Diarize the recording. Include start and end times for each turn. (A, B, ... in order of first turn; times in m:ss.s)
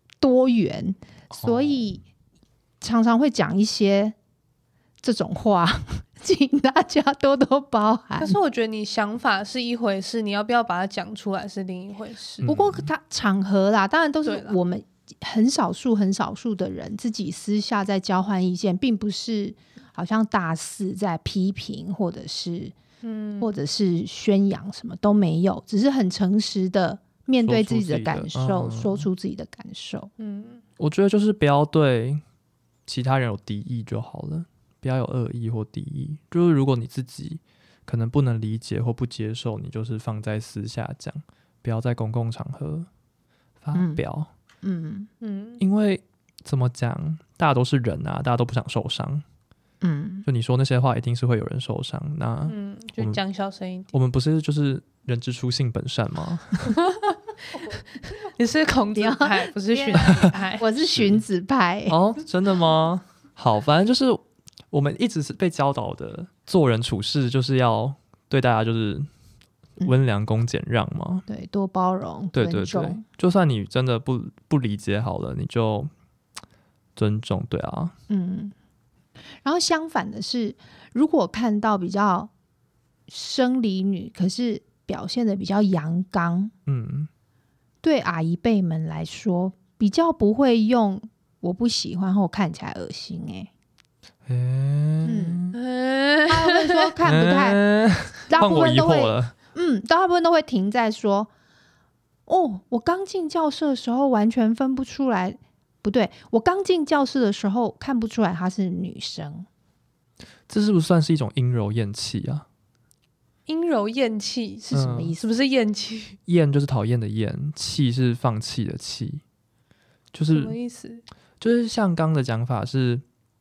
0:00.2-0:02.0 A
0:01.3-0:01.8 B
0:02.8-0:04.2 A
0:05.0-0:08.4 A
0:08.2-0:12.5 C
0:12.4-0:12.9 B
0:12.4-0:22.8 A
0:14.2-0:14.6 C
0:23.0-0:23.5 C
0:23.4-0:30.1 A
0:27.4-0:29.1 B
0:30.2-0:30.6 C
0:30.8-0:32.2 B
0:32.9-0:42.9 B
0:43.6-0:44.3 B
0:43.7-0:44.0 A
0:44.6-0:45.1 A
0:45.2-0:45.6 C
0:45.6-0:49.2 B
0:49.8-0:50.3 A
0:50.3-0:53.2 B
0:52.5-0:54.0 C
0:53.9-0:56.7 B
0:56.7-1:00.7 C
0:59.0-1:02.0 A
1:00.9-1:01.2 B
1:01.9-1:04.2 B
1:04.7-1:09.1 B
1:09.8-1:11.2 B
1:11.3-1:13.0 A
1:12.3-1:15.9 B
1:17.0-1:17.9 B
1:18.1-1:18.5 A
1:19.4-1:22.3 A
1:23.1-1:26.5 A
1:26.7-1:27.1 B
1:27.8-1:33.5 A
1:34.3-1:35.6 B
1:35.0-1:35.5 A
1:35.5-1:36.9 C
1:36.3-1:37.6 A
1:37.0-1:39.3 B
1:38.2-1:41.3 A
1:42.3-1:49.5 A
1:50.5-1:52.5 B
1:53.5-1:56.2 C
1:54.7-1:55.2 B
1:54.9-1:55.2 A
1:56.3-1:59.2 B
2:00.1-2:00.6 B
2:00.3-2:01.0 C
2:01.4-2:03.0 B